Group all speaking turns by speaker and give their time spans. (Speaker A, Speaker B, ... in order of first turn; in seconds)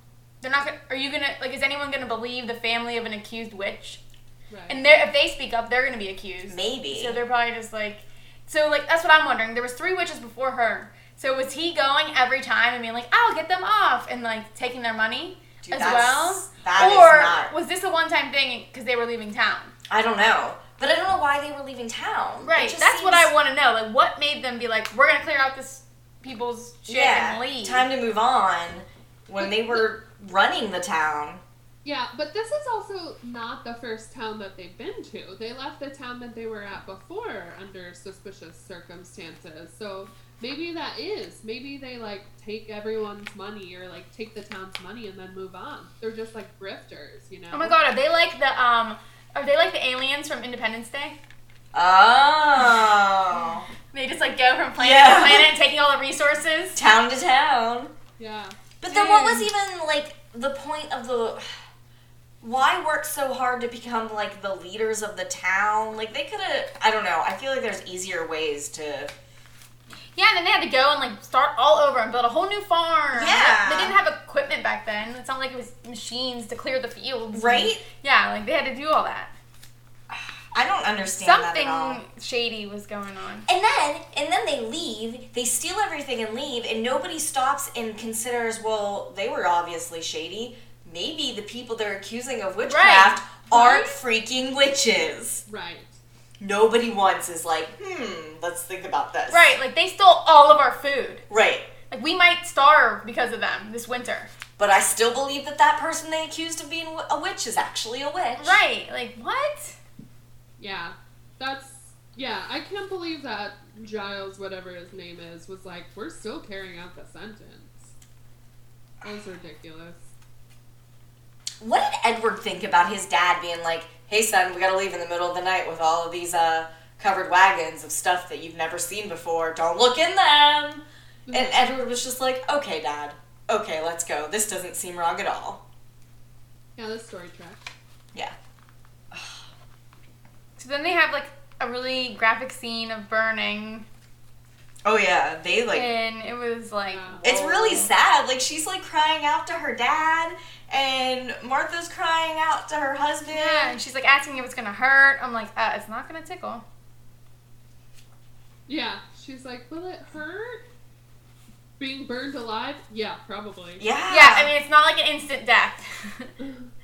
Speaker A: 0.4-4.0, 4.7-19.7, 22.4-27.9, 47.5-51.2, 53.9-56.8, 58.9-59.5, 70.2-79.3, 81.2-83.5, 92.6-93.2, 99.3-101.2, 101.9-104.3, 108.4-109.8, 140.6-143.8, 145.7-147.9, 153.3-156.6, 164.1-166.3
Speaker B: 4.5-4.8, 31.8-47.8, 58.2-58.6, 93.5-94.0, 95.5-96.0, 110.6-117.9, 119.0-120.0, 131.2-131.6, 136.8-137.7, 146.8-147.2, 158.7-160.6, 161.8-163.8, 166.4-166.7
Speaker C: 6.5-7.2, 15.6-17.5, 19.9-23.3, 26.9-31.4, 51.7-53.6, 54.8-55.5, 56.7-57.9, 58.8-61.5, 62.4-69.1, 73.1-74.0, 77.3-77.8, 80.1-82.0, 83.5-95.4, 96.4-99.5, 101.3-101.7, 104.6-108.6, 121.6-135.6, 139.1-139.4, 144.8-145.9, 147.2-153.8, 163.8-164.5